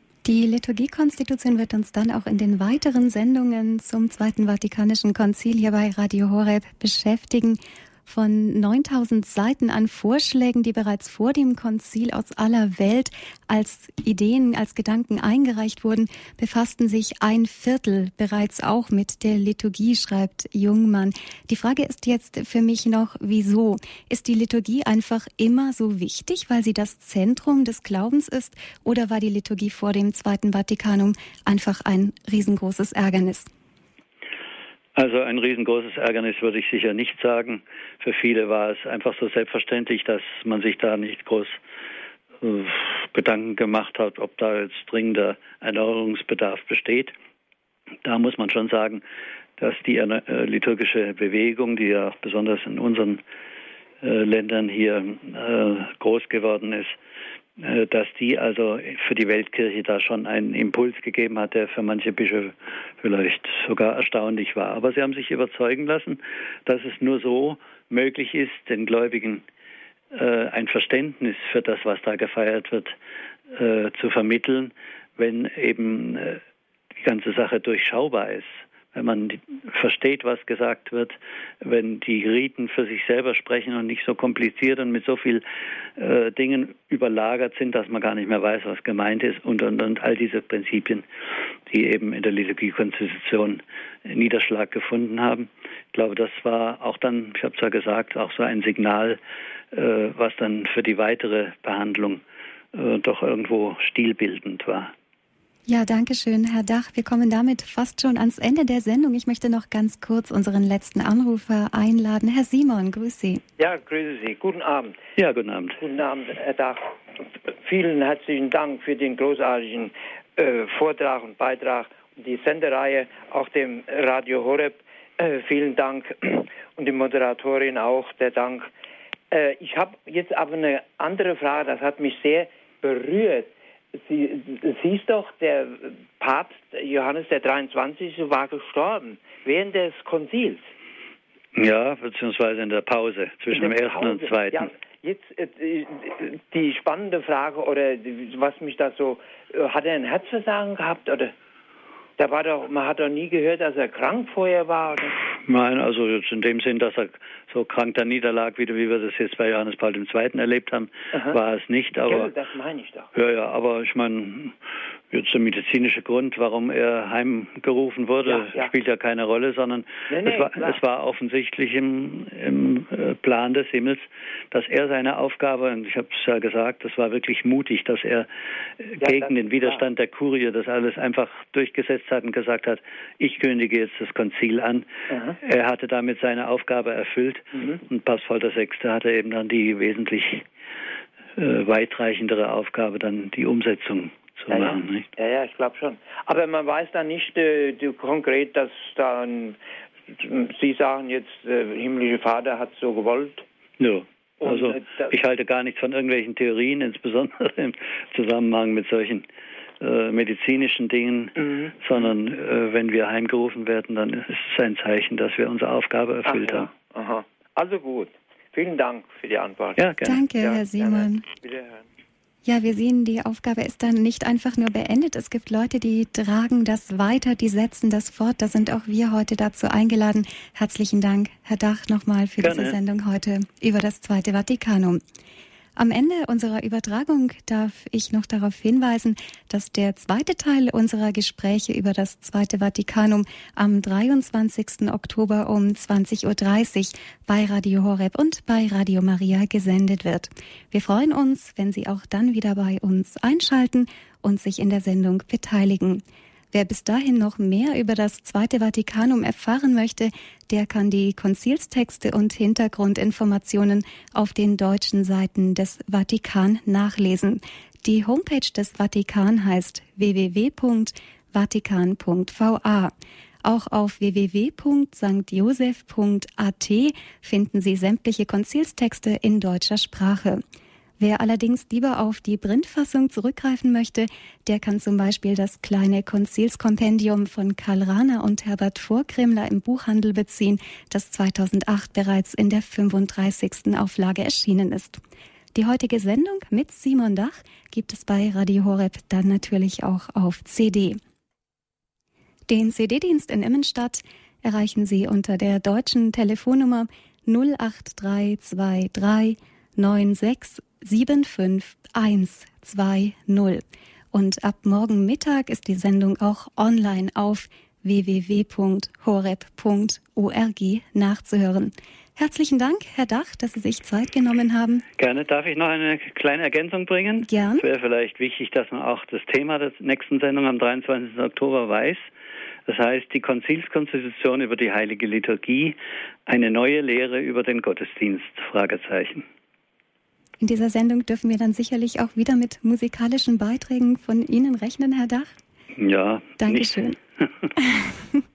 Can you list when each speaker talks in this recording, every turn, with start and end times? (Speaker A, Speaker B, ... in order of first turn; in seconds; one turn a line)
Speaker A: 0.2-33.5
Speaker B: 35.0-41.6
Speaker B: 42.4-47.1
Speaker B: 48.0-49.0
Speaker B: 49.6-53.2
Speaker B: 54.0-57.0
Speaker B: 57.6-69.4
Speaker B: 70.1-72.9
Speaker B: 73.5-76.4
Speaker B: 77.0-85.4
Speaker B: 86.0-91.0
Speaker B: 91.7-99.2
Speaker B: 99.7-102.2
Speaker B: 102.7-104.9
Speaker A: 105.7-113.4
Speaker C: 113.6-115.0
Speaker B: 115.2-115.8
Speaker C: 115.8-116.9
Speaker C: 117.6-128.7
Speaker C: 129.3-140.6
Speaker B: 141.6-144.7
Speaker C: 143.5-151.3
Speaker C: 152.2-155.2
Speaker B: 155.4-162.3
Speaker C: 162.0-163.1
Speaker B: 163.1-164.5
Speaker B: 165.1-178.3
Speaker C: 168.2-168.7
Speaker C: 170.1-170.8
Speaker B: 178.8-184.8
Speaker C: 179.0-179.8
Speaker B: 185.4-190.4
Speaker B: 191.4-195.0
Speaker C: 194.5-199.6
Speaker C: 200.1-203.4
Speaker B: 203.8-209.2
Speaker C: 204.4-205.1
Speaker B: 209.8-216.7
Speaker C: 216.2-221.8
Speaker B: 219.8-220.1
Speaker A: 220.0-221.2
Speaker A: 222.4-235.0
Speaker B: 232.4-232.8
Speaker A: 235.8-272.9
Speaker A: 273.4-280.4
Speaker A: 281.0-295.0
Speaker A: 295.5-301.0
Speaker A: 302.5-324.8
Speaker B: 325.0-332.1
Speaker A: 327.2-327.6
Speaker B: 332.7-339.2
Speaker A: 340.4-345.3
Speaker B: 345.8-346.8
Speaker A: 346.4-347.0